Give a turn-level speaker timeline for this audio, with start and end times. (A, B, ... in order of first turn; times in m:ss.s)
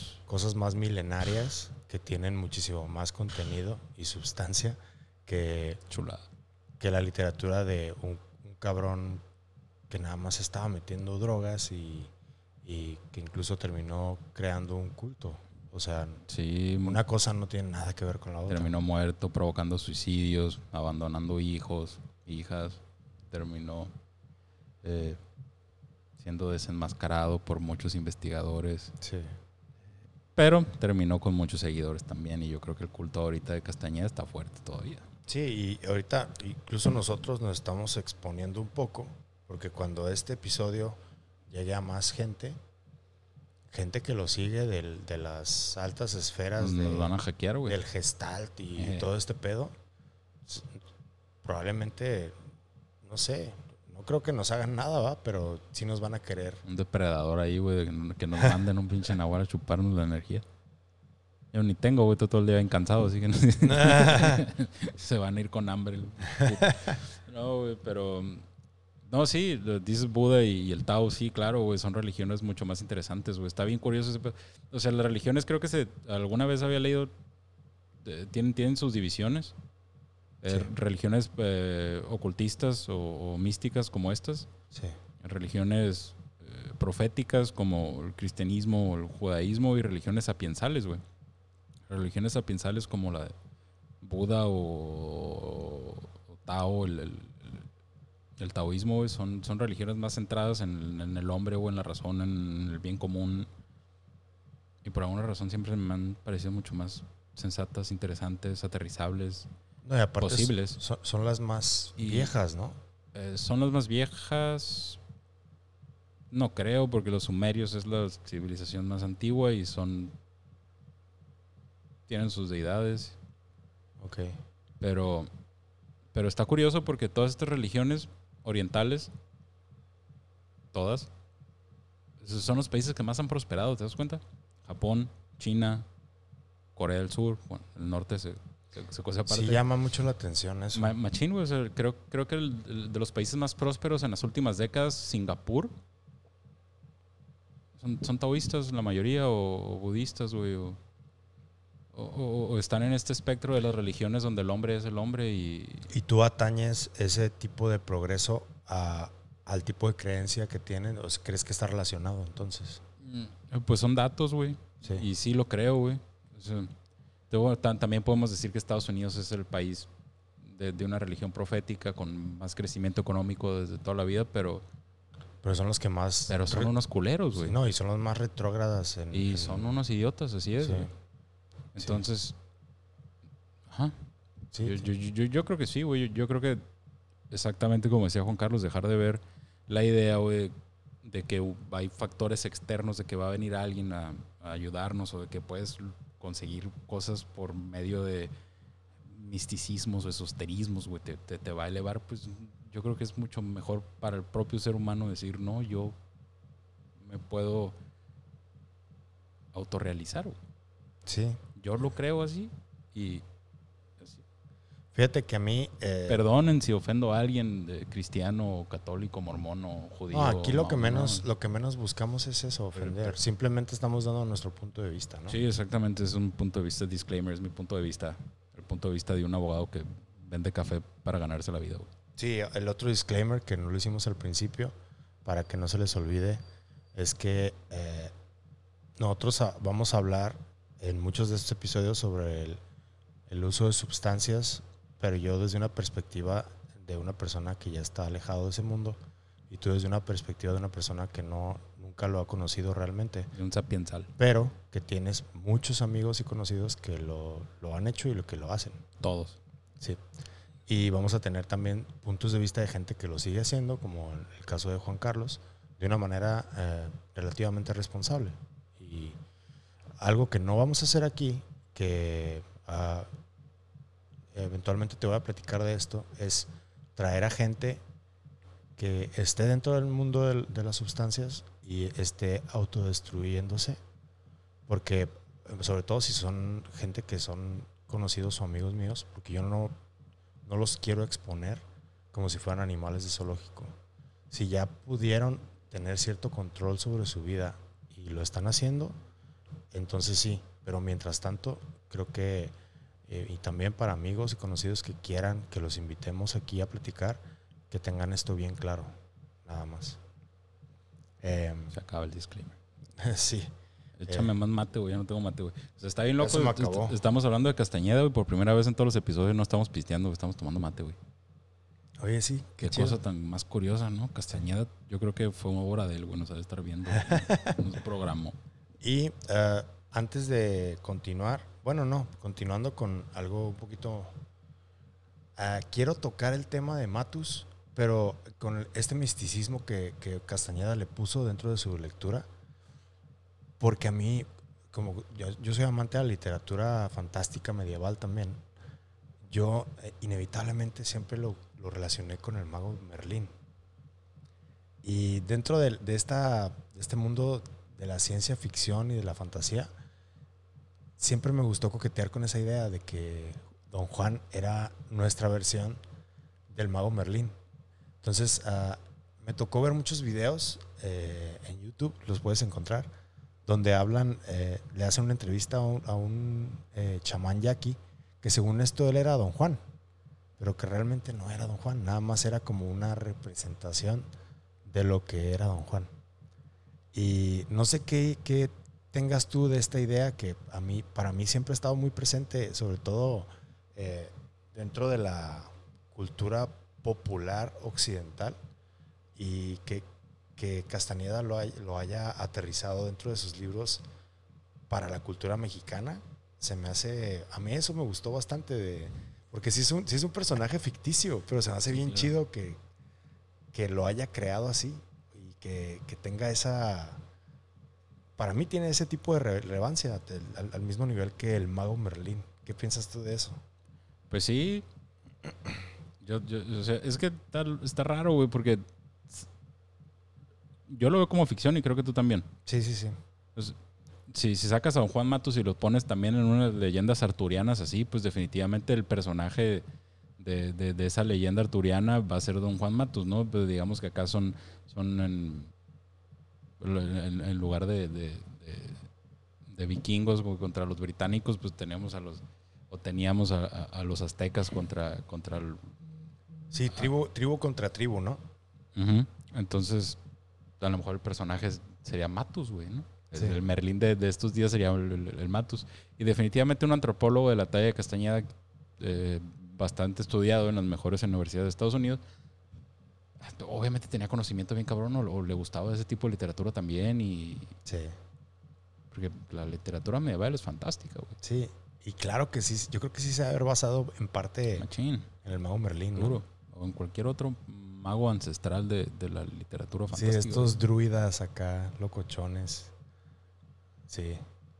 0:00.2-0:05.8 A
0:05.9-0:06.2 B
0:06.8-0:09.2 A
0:09.9-0:12.1 A
0:12.6-0:16.2 A
0:16.3-0:17.0 B
0:16.8-0:18.7 A
0:18.5-0:23.9 B
0:24.8-0:25.2 B
0:26.2-0:28.9 B
0:29.0-0:29.3 A
0:30.4-0:35.1 B
0:35.3-0:42.6 A
0:43.7-0:47.1 A
0:46.6-0:47.8 B
0:47.6-0:49.7 A
0:48.8-0:49.1 B
0:50.5-0:50.8 A
0:51.4-0:52.4 A
0:53.0-0:56.6 A
0:56.6-1:00.4 B
1:01.5-1:08.4 B
1:03.6-1:04.5 A
1:09.0-1:17.1 B
1:18.0-1:19.5 B
1:20.4-1:24.5 B
1:24.7-1:25.0 A
1:25.2-1:31.0 B
1:31.9-1:33.3 B
1:34.0-1:37.7 B
1:38.4-1:43.5 B
1:44.8-1:49.5 B
1:49.8-1:52.8 A
1:50.2-1:50.8 B
1:52.0-1:52.3 B
1:53.1-1:55.0 B
1:56.3-2:00.1 B
2:02.1-2:03.2 B
2:04.0-2:04.4 A
2:04.8-2:05.3 B
2:06.1-2:09.1 B
2:10.7-2:11.1 B
2:12.2-2:15.9 B
2:16.7-2:19.6 B
2:19.3-2:20.9 A
2:20.7-2:25.7 B
2:27.8-2:30.8 B
2:31.9-2:35.9 B
2:35.9-2:42.8 A
2:43.0-2:46.7 B
2:47.3-2:49.9 B
2:50.4-2:54.6 B
2:55.4-2:56.7 A
2:56.3-2:57.6 B
2:57.4-2:59.7 A
2:59.1-3:00.9 B
3:00.6-3:00.9 A
3:01.7-3:02.4 B
3:01.8-3:02.0 A
3:03.7-3:04.0 B
3:04.5-3:04.8 A
3:04.6-3:06.6 B
3:07.3-3:18.3 B
3:19.0-3:25.9 B
3:27.0-3:27.7 B
3:29.5-3:30.4 B
3:31.0-3:31.4 A
3:31.6-3:33.2 B
3:34.9-3:36.2 A
3:36.1-3:41.2 B
3:40.1-3:45.4 A
3:42.7-3:43.2 B
3:45.3-3:51.9 B
3:52.2-3:54.7 A
3:55.2-3:56.4 A
3:56.9-3:58.1 A
3:59.0-4:02.6 A
4:03.3-4:13.3 A
4:13.3-4:14.1 B
4:14.2-4:18.8 A
4:19.0-4:19.4 B
4:20.7-4:29.2 A
4:30.0-4:33.1 A
4:34.3-4:37.8 A
4:38.8-4:43.8 A
4:44.7-4:49.8 A
4:50.4-4:53.8 A
4:54.3-4:59.0 A
4:59.7-5:02.5 A
5:03.1-5:08.9 A
5:09.4-5:10.0 A
5:11.2-5:11.7 A
5:11.7-5:12.6 B
5:13.0-5:13.5 A
5:14.0-5:21.0 B
5:16.2-5:17.0 A
5:22.0-5:23.0 A
5:22.6-5:28.4 B
5:26.9-5:27.6 A
5:28.8-5:34.1 A
5:35.4-5:42.3 A
5:43.6-5:48.4 A
5:49.2-5:53.3 A
5:54.8-5:59.7 A
6:01.0-6:05.8 A
6:06.5-6:07.4 A
6:08.0-6:12.9 A
6:13.4-6:19.6 A
6:20.4-6:24.1 A
6:24.6-6:25.9 A
6:26.9-6:38.4 A
6:39.2-6:39.8 A
6:40.4-6:43.8 A
6:44.7-6:52.6 A
6:51.7-6:52.1 B
6:53.5-6:57.0 A
6:58.2-7:03.4 A
7:04.1-7:04.6 B
7:06.0-7:09.3 B
7:10.7-7:12.3 B
7:12.4-7:13.0 A
7:14.1-7:19.6 B
7:20.2-7:25.5 B
7:26.6-7:28.8 B
7:29.5-7:35.7 B
7:36.5-7:38.2 A
7:38.8-7:40.0 B
7:40.6-7:52.0 B
7:43.1-7:43.4 A
7:53.2-7:57.5 B
7:57.6-7:58.0 A
7:58.9-8:01.2 B
8:01.2-8:04.7 A
8:04.6-8:05.1 B
8:05.2-8:06.2 A
8:05.9-8:10.6 B
8:09.9-8:12.7 A
8:13.9-8:14.2 A